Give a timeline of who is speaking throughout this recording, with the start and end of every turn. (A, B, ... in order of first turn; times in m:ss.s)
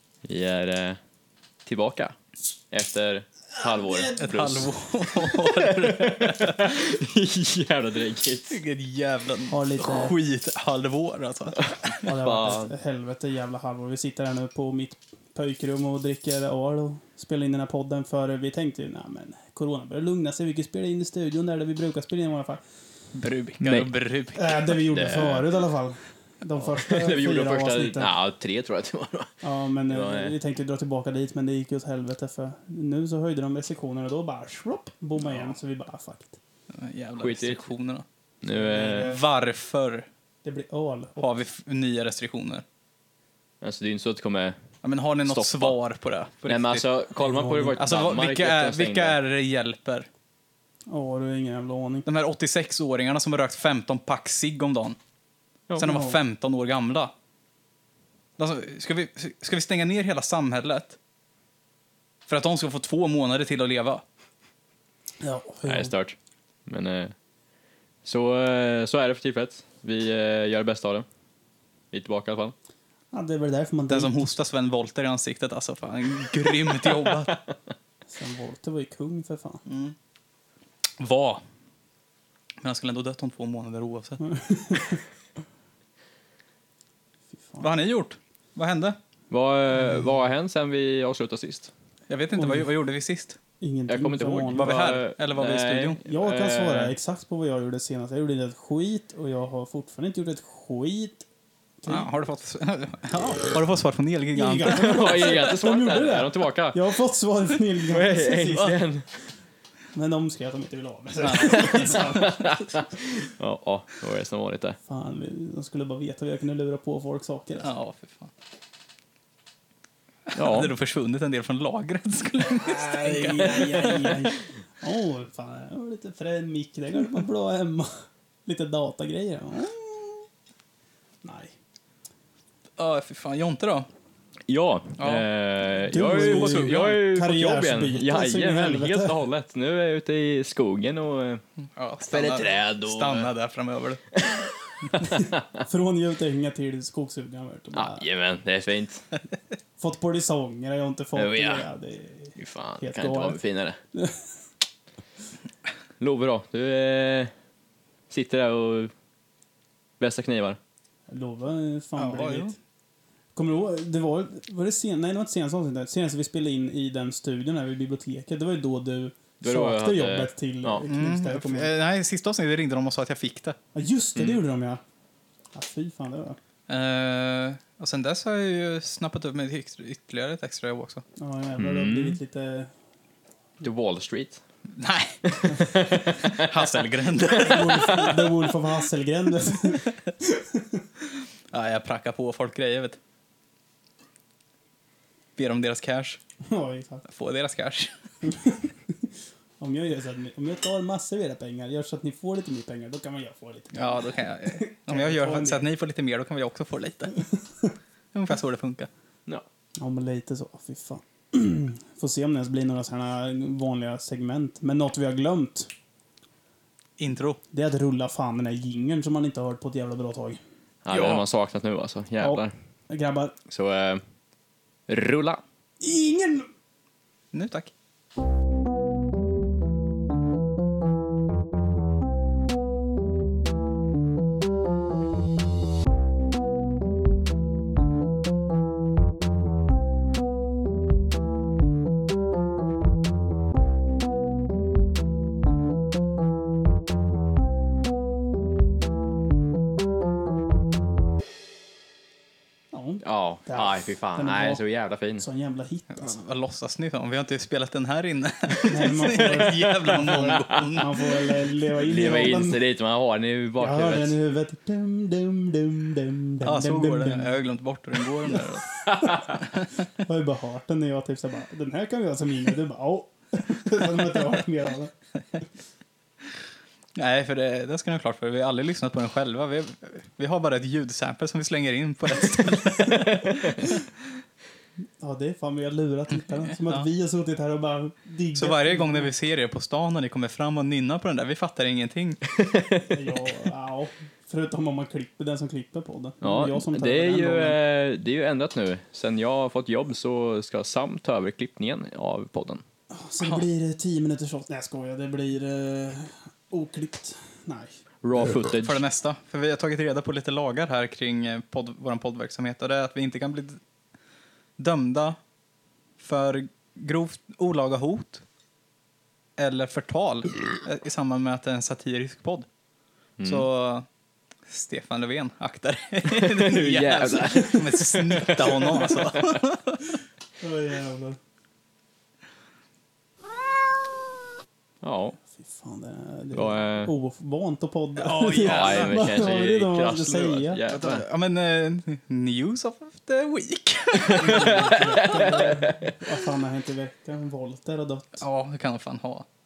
0:00.2-0:01.0 A
0:01.6-0:02.1 A
0:02.7-0:04.7 A
0:03.9-0:04.2 B
0:04.2-0:06.6 C
0:05.2-0:08.6 A
0:08.5-0:11.7 C
0:09.5-0:10.2 B
0:11.6-0:12.7 A
0:12.0-0:22.6 B
0:23.1-0:24.8 C
0:23.6-0:23.9 A
0:24.3-0:28.1 B
0:24.9-0:25.4 A
0:26.6-0:29.3 A
0:29.4-0:36.4 B
0:29.9-0:30.4 A
0:36.7-0:38.0 C
0:37.2-0:37.6 A
0:38.4-0:39.1 A
0:38.5-0:39.2 B
0:38.8-0:40.1 C
0:40.4-0:41.3 B
0:41.2-0:42.6 C
0:43.6-0:44.6 A
0:44.8-0:46.8 C
0:45.2-0:45.8 A
0:46.5-0:49.2 A
0:47.2-0:47.8 B
0:47.8-0:50.1 C
0:50.9-0:52.1 B
0:52.0-0:55.0 C
0:55.8-0:57.1 C
0:55.8-0:56.2 B
0:58.4-1:01.0 C
1:02.3-1:04.0 C
1:05.2-1:05.9 B
1:05.7-1:07.1 A
1:08.0-1:11.0 A
1:11.9-1:12.5 A
1:13.1-1:14.3 B
1:13.9-1:17.4 C
1:16.9-1:17.4 A
1:18.1-1:19.6 B
1:19.7-1:19.9 C
1:21.0-1:21.4 C
1:22.6-1:24.2 C
1:24.2-1:25.0 B
1:27.6-1:29.0 C
1:29.3-1:31.7 A
1:32.1-1:33.4 C
1:32.4-1:32.7 B
1:33.6-1:34.7 B
1:33.9-1:36.9 A
1:34.5-1:36.0 C
1:36.0-1:41.2 B
1:41.8-1:42.1 B
1:41.9-1:45.0 C
1:44.3-1:48.8 B
1:44.7-1:46.9 A
1:47.7-1:49.0 A
1:49.9-1:52.8 B
1:51.2-1:52.0 C
1:51.5-1:54.8 A
1:54.8-1:57.7 B
1:57.6-1:58.3 C
2:00.3-2:04.3 C
2:00.3-2:00.7 A
2:02.4-2:10.3 B
2:11.2-2:11.5 B
2:12.8-2:13.9 C
2:14.5-2:21.4 A
2:15.0-2:15.3 C
2:15.9-2:19.2 B
2:16.1-2:17.0 C
2:21.8-2:24.0 C
2:22.1-2:23.3 A
2:24.2-2:25.4 A
2:25.0-2:28.0 B
2:27.7-2:29.0 A
2:29.8-2:33.4 B
2:31.1-2:31.6 A
2:32.4-2:33.8 A
2:33.9-2:34.2 B
2:36.0-2:37.3 A
2:38.1-2:38.9 A
2:40.0-2:40.6 A
2:41.1-2:42.5 B
2:42.0-2:42.5 C
2:43.3-2:51.7 B
2:49.4-2:50.8 A
2:50.9-2:53.6 C
2:53.7-2:54.8 B
2:55.5-2:56.4 B
2:56.7-3:01.0 C
3:01.2-3:02.7 B
3:01.6-3:02.2 A
3:03.6-3:04.4 A
3:04.7-3:05.3 C
3:05.2-3:06.5 A
3:06.2-3:08.2 C
3:07.3-3:08.1 A
3:07.4-3:10.8 B
3:11.5-3:13.0 C
3:15.4-3:16.2 C
3:16.4-3:17.0 B
3:17.1-3:17.9 C
3:18.2-3:19.0 B
3:19.6-3:25.7 B
3:23.7-3:27.2 C
3:28.1-3:28.9 C
3:29.8-3:35.7 B
3:37.0-3:37.4 C
3:37.5-3:40.4 B
3:40.8-3:42.5 A
3:40.9-3:41.2 C
3:42.2-3:43.4 B
3:43.5-3:44.0 A
3:44.9-3:45.4 A
3:45.8-3:46.5 B
3:47.3-3:47.7 C
4:12.7-4:14.6 B
4:13.0-4:15.2 A
4:15.2-4:16.2 B
4:15.9-4:20.9 C
4:18.6-4:22.6 B
4:19.2-4:20.8 A
4:21.8-4:24.1 A
4:23.6-4:27.3 B
4:26.4-4:28.8 C
4:28.3-4:29.4 B
4:29.4-4:29.7 C
4:30.0-4:34.9 B
4:37.0-4:43.7 C
4:43.4-4:43.7 B
4:45.0-4:49.1 B
4:46.4-4:46.8 C
4:48.3-4:52.2 C
4:52.3-4:53.2 A
4:52.8-4:57.6 B
4:56.2-5:02.6 A
5:02.9-5:07.7 B
5:08.0-5:08.8 A
5:08.5-5:13.6 C
5:14.6-5:15.2 C
5:16.0-5:18.2 C
5:19.4-5:22.5 C
5:23.2-5:23.5 A
5:23.2-5:23.8 C
5:24.5-5:29.9 C
5:26.0-5:29.4 A
5:27.3-5:27.6 B
5:30.4-5:31.2 B
5:34.8-5:35.2 A
5:35.3-5:40.6 B
5:36.3-5:36.9 A
5:38.0-5:39.0 C
5:38.4-5:41.0 A
5:40.7-5:44.6 C
5:44.0-5:45.9 A
5:44.1-5:48.2 B
5:48.2-5:49.2 C